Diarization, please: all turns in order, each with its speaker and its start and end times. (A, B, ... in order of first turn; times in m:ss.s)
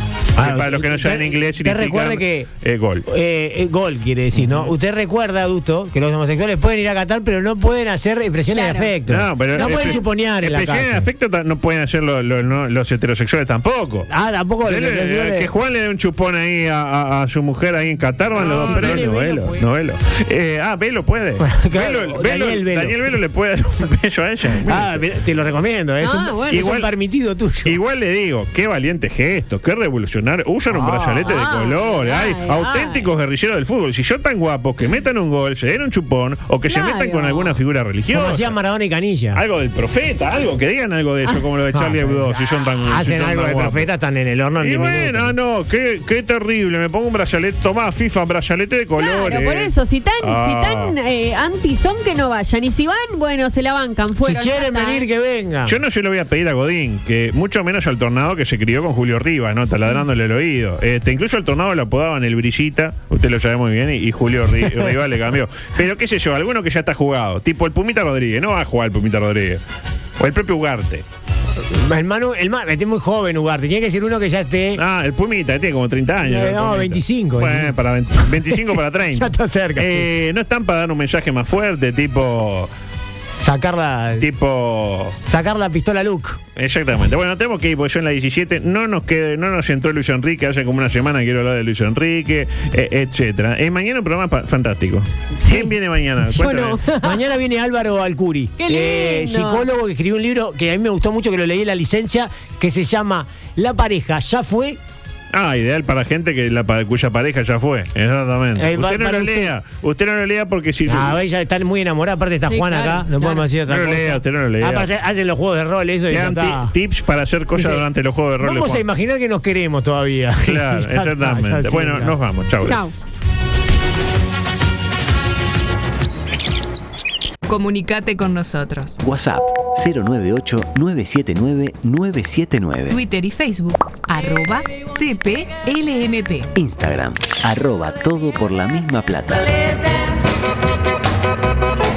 0:00.4-0:02.5 A
0:00.4-0:03.1 B
0:03.0-0:11.1 A
0:04.3-0:04.7 B
0:08.5-0:08.9 C
0:09.1-0:14.1 B
0:09.5-0:10.0 C
0:14.1-0:15.5 A
0:14.6-0:25.0 B
0:18.3-0:19.6 A
0:18.4-0:19.0 C
0:21.4-0:23.1 A
0:24.6-0:27.8 A
0:26.0-0:26.7 C
0:26.5-0:26.9 B
0:27.6-0:38.5 B
0:30.7-0:31.4 A
0:31.2-0:33.1 C
0:36.7-0:37.5 C
0:38.1-0:39.4 A
0:39.3-0:43.8 B
0:41.7-0:45.3 A
0:44.6-0:50.9 B
0:49.0-0:55.0 C
0:54.2-0:55.8 A
0:55.6-1:09.6 B
1:10.2-1:11.0 B
1:11.6-1:14.8 A
1:14.8-1:22.7 B
1:16.2-1:17.7 A
1:18.3-1:20.1 A
1:23.4-1:24.3 A
1:24.2-1:25.2 B
1:25.2-1:26.4 A
1:26.6-1:36.8 B
1:35.4-1:35.7 C
1:36.3-1:37.2 C
1:37.0-1:44.8 A
1:38.6-1:39.6 C
1:45.3-1:51.2 B
1:48.5-1:49.5 A
1:50.9-1:56.7 A
1:52.5-1:53.5 C
1:53.7-1:54.9 B
1:56.1-1:58.8 B
1:57.6-1:57.8 A
1:58.4-2:02.2 A
2:00.4-2:02.8 B
2:02.6-2:02.9 C
2:07.4-2:09.0 D
2:09.0-2:13.0 E
2:12.9-2:16.5 D
2:16.6-2:19.6 E